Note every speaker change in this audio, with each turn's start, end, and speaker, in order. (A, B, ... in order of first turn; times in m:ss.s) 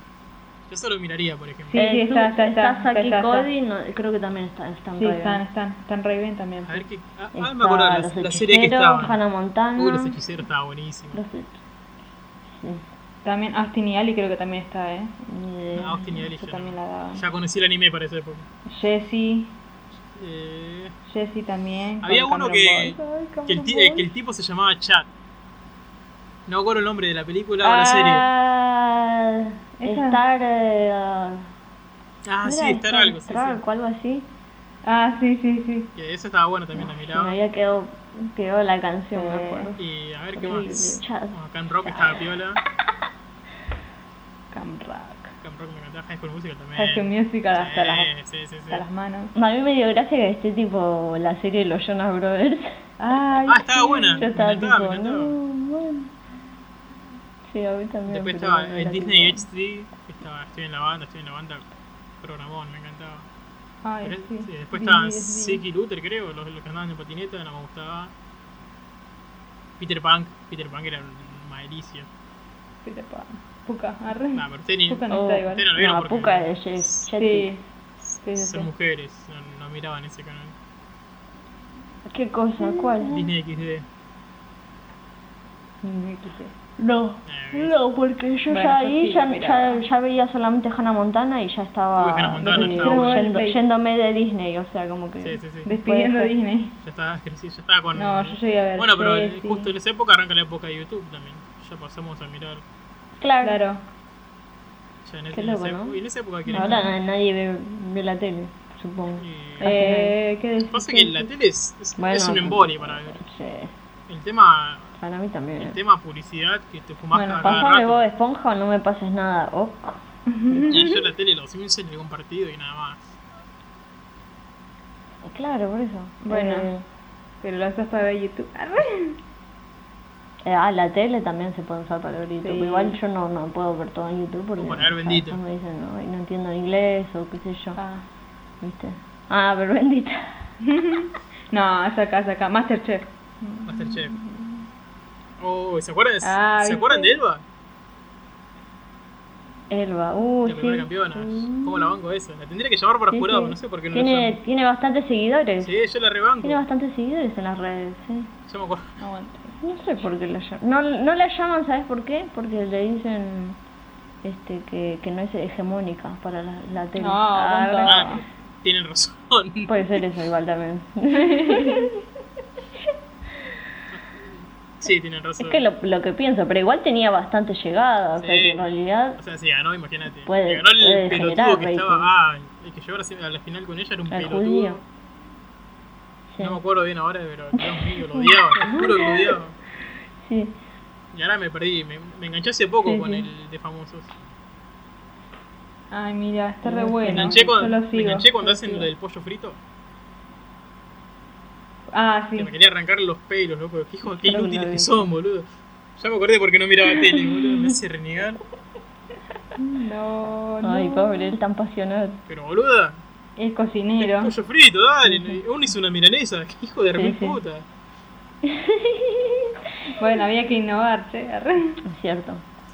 0:00.7-0:01.8 A
0:01.7-0:03.5 B
0:01.7-0:05.4 C
0:05.0-0:06.8 B
0:06.6-0:09.2 A
0:07.4-0:10.2 C
0:09.8-0:11.2 A
0:11.1-0:11.6 C
0:12.5-0:12.8 C
0:13.2-0:15.1 B
0:15.3-0:16.2 C
0:15.8-0:18.4 A
0:16.0-0:17.2 B
0:18.7-0:19.6 B
0:20.2-0:20.9 A
0:21.1-0:23.0 B
0:22.0-0:25.1 A
0:22.8-0:24.1 C
0:26.5-0:28.2 A
0:27.6-0:31.5 C
0:29.8-0:30.2 B
0:32.2-0:33.6 A
0:32.4-0:34.3 C
0:34.8-0:35.9 B
0:36.0-0:37.4 A
0:36.7-0:39.8 C
0:39.1-0:39.8 B
0:39.8-0:42.6 A
0:40.4-0:41.3 C
0:41.8-0:42.2 C
0:44.5-0:45.3 B
0:45.4-0:48.8 A
0:46.8-0:48.1 B
0:48.7-0:49.3 B
0:49.3-0:52.8 C
0:53.0-0:54.3 B
0:53.5-0:55.4 A
0:54.2-0:56.1 C
0:57.5-0:59.4 C
0:58.1-1:01.6 A
1:02.2-1:03.2 A
1:03.8-1:05.6 B
1:04.0-1:08.1 A
1:09.8-1:12.1 A
1:12.8-1:15.6 B
1:14.3-1:17.0 A
1:15.1-1:17.5 C
1:17.1-1:17.6 B
1:18.2-1:18.7 B
1:18.3-1:20.5 A
1:22.0-1:23.3 C
1:23.0-1:23.8 A
1:25.8-1:26.5 B
1:26.8-1:36.3 C
1:27.3-1:27.8 A
1:28.5-1:29.8 B
1:31.9-1:33.2 A
1:32.4-1:33.6 B
1:35.2-1:35.7 A
1:35.6-1:36.8 B
1:36.8-1:42.6 A
1:37.9-1:39.7 B
1:43.2-1:43.6 C
1:43.4-1:43.8 B
1:45.0-1:46.9 A
1:45.3-1:46.0 C
1:46.5-1:50.2 C
1:46.5-1:46.8 B
1:49.2-1:49.8 A
1:49.6-1:51.3 B
1:50.7-1:53.2 A
1:52.0-1:53.7 C
1:54.1-1:54.9 A
1:55.0-1:55.8 C
1:55.6-1:58.0 A
1:57.1-1:57.6 B
1:57.4-2:00.9 C
2:00.3-2:01.0 B
2:00.7-2:03.2 A
2:05.2-2:06.8 C
2:06.2-2:06.7 B
2:07.4-2:09.2 B
2:10.4-2:17.8 C
2:12.4-2:13.0 B
2:14.6-2:15.4 A
2:17.8-2:18.0 B
2:18.6-2:20.4 C
2:20.6-2:24.6 B
2:23.7-2:24.1 A
2:25.4-2:27.4 A
2:26.2-2:27.1 B
2:29.7-2:31.9 C
2:30.4-2:34.4 A
2:33.1-2:35.7 C
2:35.6-2:36.6 A
2:36.4-2:38.3 C
2:38.5-2:38.9 A
2:39.0-2:39.5 B
2:39.6-2:43.6 C
2:44.2-2:48.2 C
2:47.0-2:48.2 B
2:47.8-2:50.0 A
2:49.7-2:52.0 C
2:51.2-2:51.9 B
2:53.9-2:55.6 A
2:55.4-2:59.2 C
2:58.2-2:58.6 A
2:59.2-3:04.8 A
3:00.3-3:02.1 C
3:04.1-3:04.8 C
3:06.3-3:06.6 C
3:06.4-3:09.5 A
3:07.5-3:09.4 C
3:10.2-3:10.6 C
3:11.1-3:14.1 A
3:12.8-3:13.3 C
3:15.9-3:18.8 B
3:16.6-3:17.5 C
3:17.1-3:19.6 A
3:21.9-3:22.5 B
3:22.4-3:28.4 A
3:24.1-3:25.1 C
3:29.6-3:31.4 B
3:30.6-3:32.2 C
3:32.3-3:33.0 A
3:33.4-3:34.3 B
3:34.0-3:37.6 A
3:35.0-3:35.4 C
3:36.9-3:37.4 C
3:38.4-3:39.6 C
3:40.0-3:41.8 B
3:41.8-3:42.4 C